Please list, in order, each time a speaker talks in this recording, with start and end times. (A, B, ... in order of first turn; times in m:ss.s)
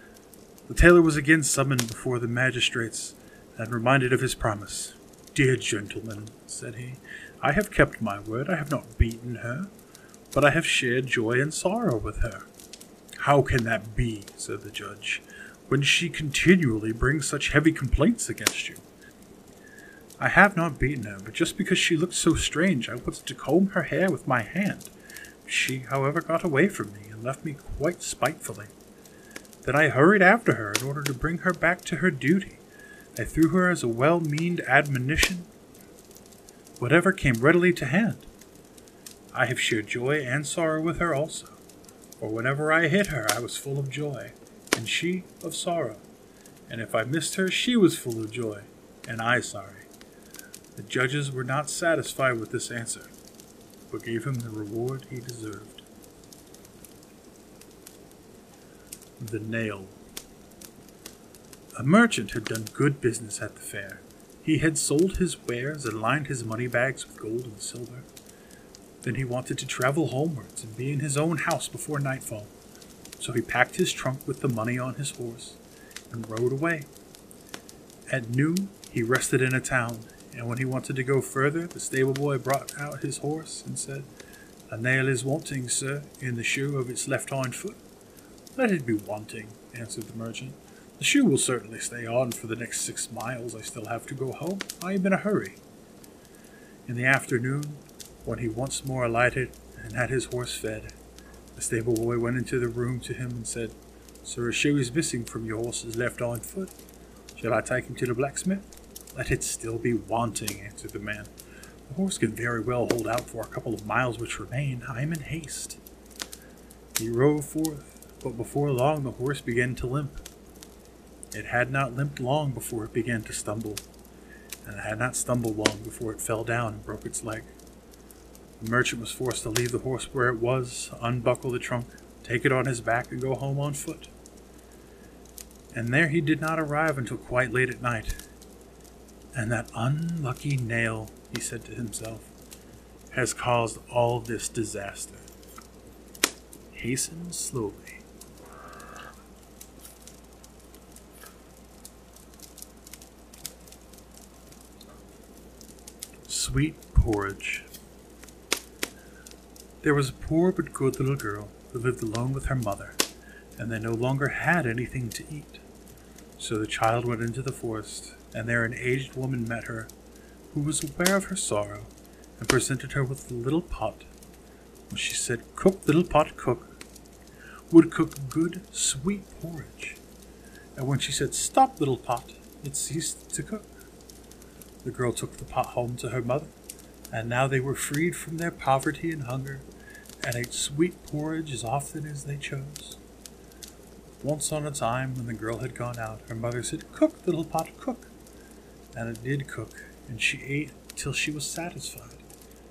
0:00.7-0:09.7 A
0:10.3-0:12.5 A
0:13.2-0:18.8 A
0:20.2-0:24.9 A
0:25.5-0:28.7 A
0:29.6-0:32.6 A
0:33.2-0:35.5 A
0:36.8-0:38.3 A
0:39.3-0:41.6 A
0:42.2-0:46.0 A
0:46.7-0:49.9 A
0:50.8-0:53.1 A
0:53.9-0:55.8 A
0:59.2-1:00.0 A
1:01.8-1:08.1 A
1:09.0-1:12.5 A
1:13.2-1:15.6 A
1:16.1-1:16.9 A
1:18.1-1:24.1 A
1:24.7-1:27.8 A
1:28.6-1:35.6 A
1:36.9-1:40.9 A
1:41.6-1:46.7 A
1:47.4-1:51.3 A
1:51.9-1:55.8 A
1:57.0-2:00.2 A
2:01.3-2:03.8 A
2:04.6-2:07.5 A
2:08.6-2:14.1 A
2:15.7-2:18.2 A
2:19.3-2:22.3 A
2:23.1-2:25.3 A
2:26.7-2:28.0 A
2:36.3-2:37.7 A
2:39.8-2:43.0 A
2:43.6-2:45.6 A
2:46.4-2:49.9 A
2:50.5-2:54.1 A
2:54.9-2:56.8 A
2:57.7-3:00.0 A
3:00.8-3:03.7 A
3:04.8-3:06.5 A
3:07.1-3:09.7 A
3:10.2-3:13.0 A
3:14.2-3:18.1 A
3:18.9-3:22.2 A